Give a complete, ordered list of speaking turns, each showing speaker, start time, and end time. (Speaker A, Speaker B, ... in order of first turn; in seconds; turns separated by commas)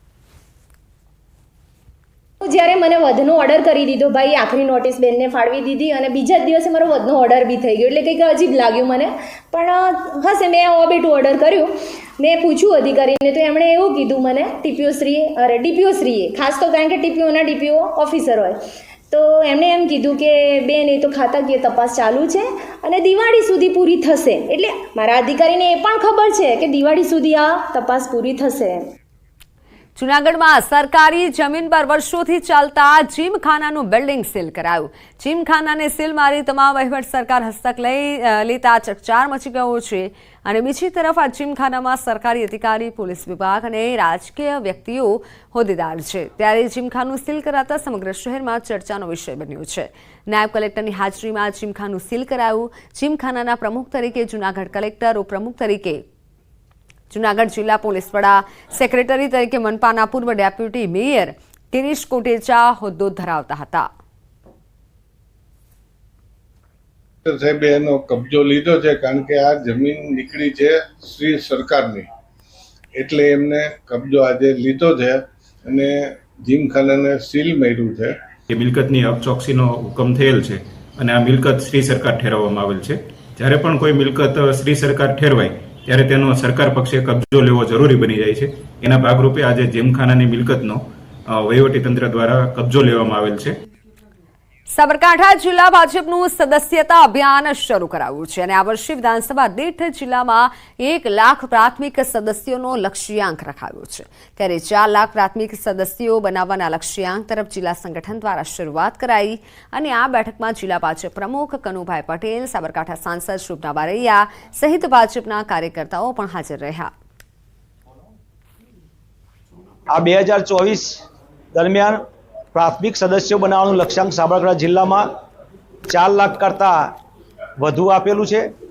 Speaker A: 2.4-18.6, Speaker A: 19.1-28.9, Speaker B: 30.0-56.0, Speaker B: 57.1-63.9, Speaker C: 67.3-72.1, Speaker C: 73.0-78.2, Speaker D: 78.5-93.6, Speaker B: 94.8-116.9, Speaker E: 119.9-121.0, Speaker E: 121.5-122.0, Speaker E: 122.5-125.1, Speaker E: 125.9-126.9, Speaker E: 127.6-128.5